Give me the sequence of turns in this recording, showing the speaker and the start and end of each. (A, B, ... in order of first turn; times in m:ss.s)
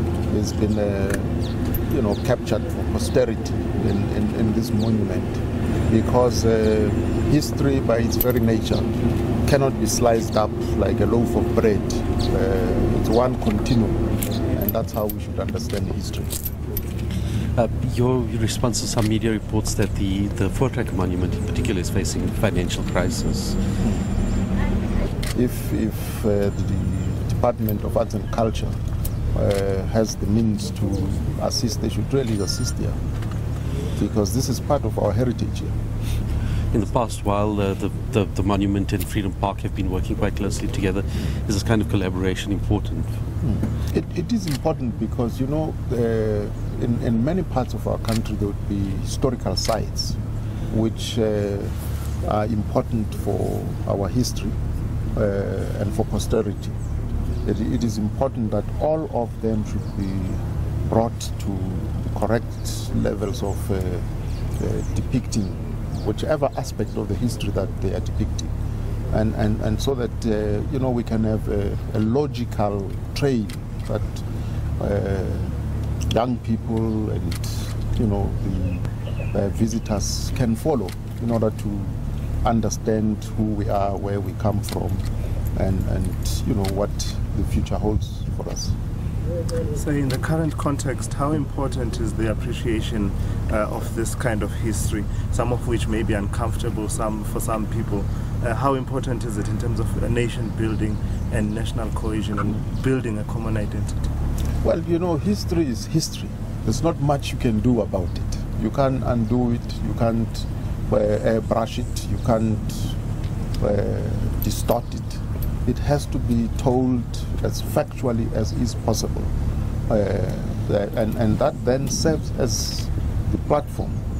0:00.3-0:16.4 A
0:17.5-0:23.6 B
0:23.8-0:24.1 A
0:25.3-0:28.8 A
0:29.3-0:33.0 A
0:33.9-0:35.7 A
0:36.7-0:43.2 B
0:43.4-0:50.2 A
0:50.7-0:54.6 A
0:55.1-0:56.8 A
0:57.4-1:04.1 A
1:04.6-1:08.5 A
1:09.1-1:14.2 A
1:14.8-1:28.8 A
1:29.7-1:44.0 C
1:44.6-1:53.0 A
1:53.6-1:59.3 A
1:59.9-2:04.0 A